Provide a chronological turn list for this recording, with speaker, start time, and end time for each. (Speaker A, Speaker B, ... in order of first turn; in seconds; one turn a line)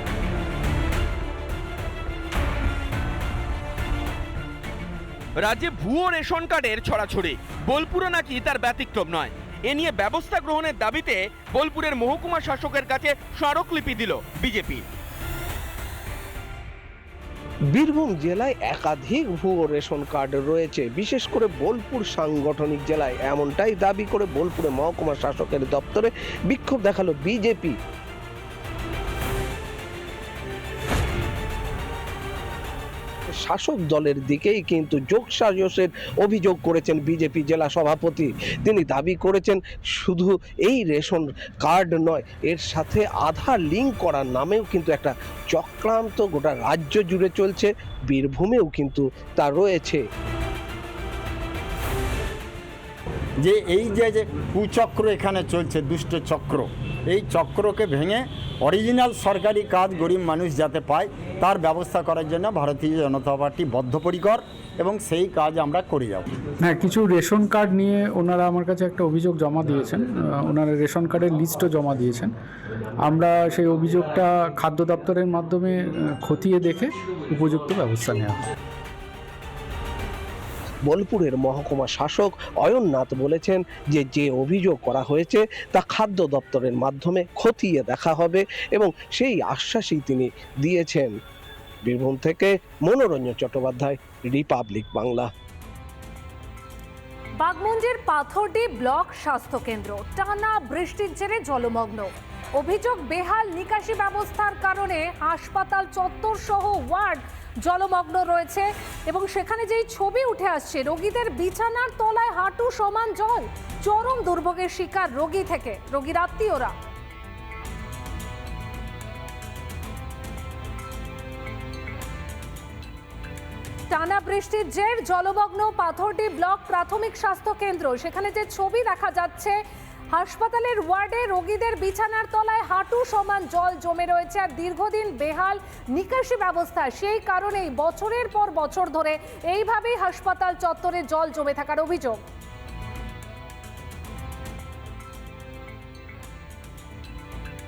Speaker A: 5.3-14.8
Speaker B: 17.7-27.7
Speaker B: 33.4-50.0
Speaker C: 53.4-66.3
Speaker D: 66.6-72.3
Speaker D: 73.1-75.7
Speaker D: 76.2-78.4
Speaker B: 80.9-91.1
Speaker B: 91.8-95.3
Speaker E: 97.4-116.7
Speaker E: 123.9-129.6
Speaker E: 130.1-142.2